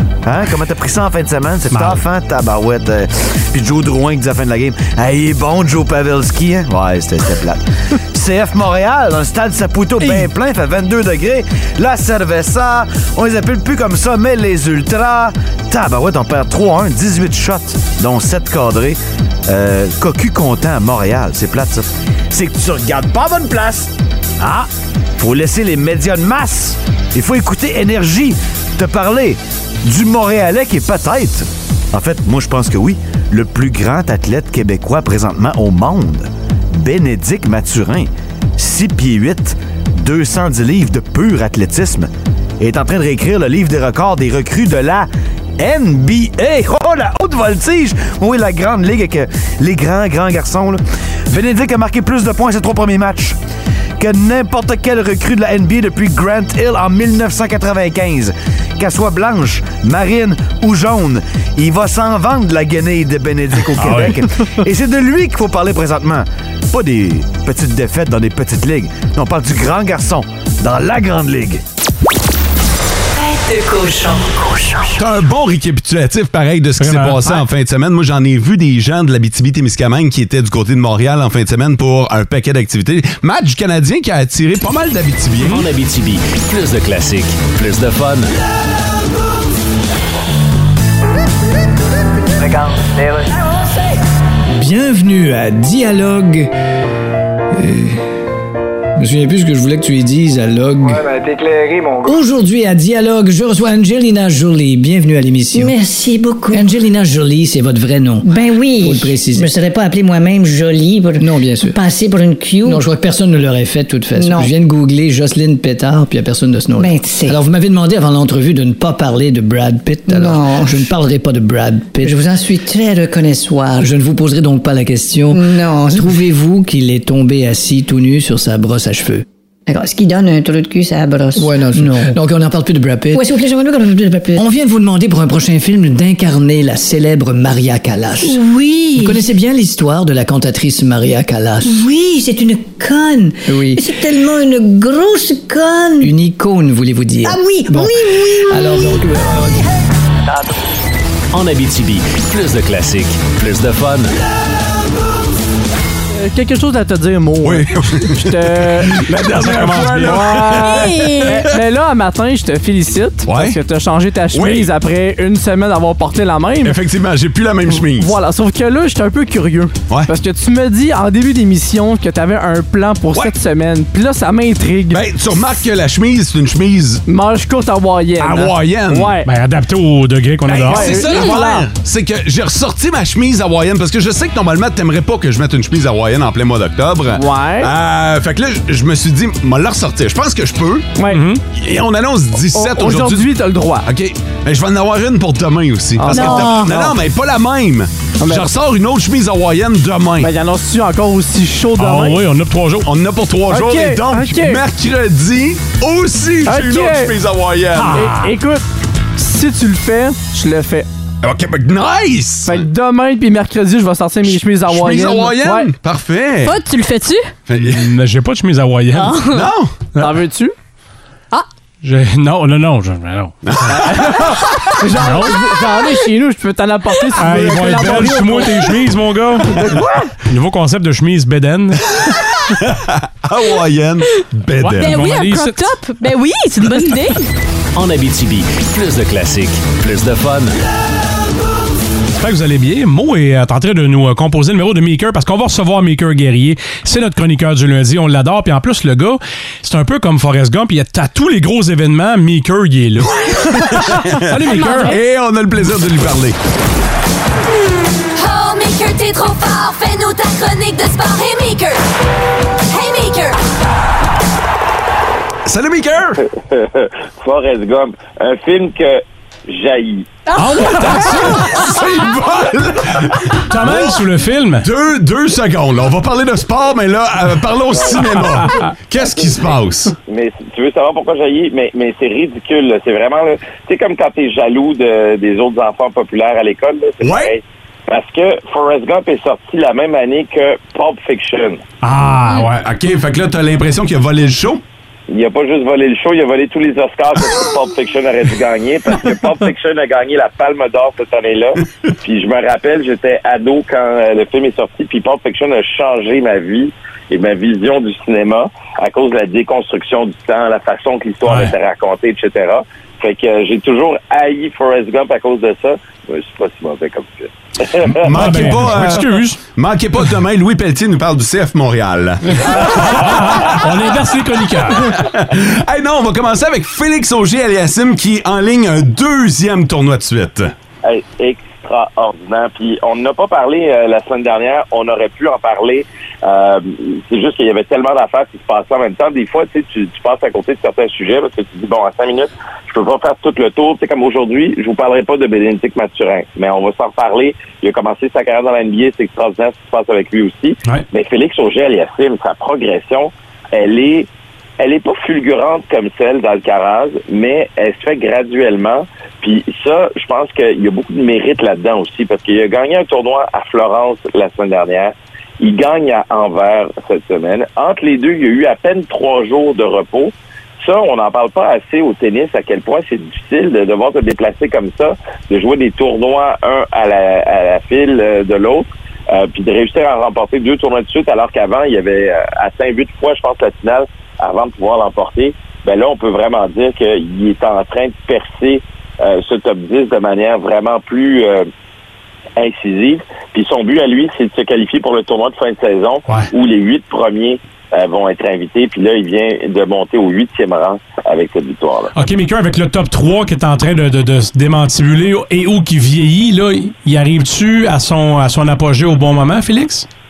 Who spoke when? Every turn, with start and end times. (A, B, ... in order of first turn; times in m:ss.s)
0:00.2-0:53.4 A
0:01.7-0:02.0 B
0:54.0-1:11.6 A
1:03.8-1:04.2 B
1:13.2-1:15.0 C
1:15.0-1:25.6 D
1:16.8-1:17.3 B
1:25.5-1:28.3 E
1:32.4-1:33.4 F
1:34.5-1:36.5 G
1:37.5-1:38.0 G
1:39.0-1:41.1 G
1:40.8-1:42.1 F
1:42.0-1:45.8 G
1:45.5-1:46.7 C
1:46.5-1:49.5 G
1:48.2-1:52.8 C
1:51.2-1:51.8 G
1:52.7-2:02.4 G
1:54.2-1:54.5 C
1:56.8-1:57.4 C
2:00.1-2:00.9 C
2:02.0-2:03.9 C
2:03.8-2:09.2 G
2:05.3-2:06.3 C
2:09.7-2:12.2 C
2:11.4-2:13.3 G
2:13.1-2:14.5 C
2:14.3-2:18.4 G
2:18.2-2:19.2 C
2:19.0-2:21.9 G
2:21.6-2:26.1 C
2:23.5-2:23.9 G
2:26.0-2:29.7 G
2:27.2-2:29.0 C
2:31.3-2:34.1 E
2:36.1-2:38.9 H
2:37.4-2:41.2 D
2:39.3-2:40.4 B
2:39.8-2:46.8 H
2:40.6-2:41.4 I
2:43.2-2:43.6 D
2:44.3-2:44.7 D
2:46.6-2:48.1 D
2:47.9-2:55.0 H
2:54.9-2:57.0 D
2:57.1-2:59.3 H
2:58.2-2:59.2 D
2:59.2-3:01.1 B
3:00.5-3:10.9 D
3:00.6-3:01.7 H
3:07.1-3:07.7 H
3:11.0-3:11.2 H
3:11.1-3:11.4 B
3:11.5-3:13.3 D
3:12.6-3:13.9 H
3:13.8-3:20.3 D
3:16.0-3:17.0 H
3:16.1-3:16.7 I
3:18.2-3:18.5 H
3:20.2-3:22.2 H
3:21.8-3:22.9 B
3:22.8-3:28.0 D
3:23.5-3:24.6 H
3:26.5-3:27.1 H
3:27.8-3:28.3 B
3:27.9-3:28.6 H
3:29.2-3:30.9 H
3:31.2-3:32.7 D
3:32.5-3:35.7 H
3:34.6-3:36.6 D
3:36.4-3:37.3 I
3:37.5-3:37.9 D
3:37.6-3:39.2 B
3:38.9-3:39.5 I
3:39.2-3:39.8 D
3:40.0-3:40.5 H
3:41.8-3:43.4 B
3:43.4-3:44.1 D
3:43.7-3:48.8 H
3:45.0-3:45.4 B
3:47.2-3:49.7 B
3:49.5-3:50.0 H
3:50.2-3:52.0 B
3:52.5-3:55.0 D
3:54.6-3:55.7 B
3:54.8-3:57.3 I
3:57.8-4:00.6 E
4:02.2-4:14.9 B
4:13.7-4:16.4 D
4:14.4-4:15.0 I
4:18.2-4:21.8 J
4:22.7-4:23.4 J
4:25.4-4:26.2 D
4:26.6-4:30.2 K
4:30.3-4:31.2 I
4:30.4-4:31.4 B
4:30.7-4:34.0 D
4:33.5-4:34.7 B
4:34.6-4:39.9 D
4:37.7-4:38.2 K
4:39.0-4:39.5 K
4:40.1-4:51.6 K
4:47.0-4:47.3 D
4:51.8-4:52.6 B
4:52.3-4:54.6 D
4:55.1-5:17.9 K
5:11.2-5:11.5 B
5:18.0-5:23.8 D
5:18.1-5:19.4 B
5:22.4-5:25.0 B
5:24.6-5:30.5 D
5:30.8-5:54.1 K
5:54.6-6:31.5 K
6:32.4-6:41.9 K
6:41.9-6:49.9 B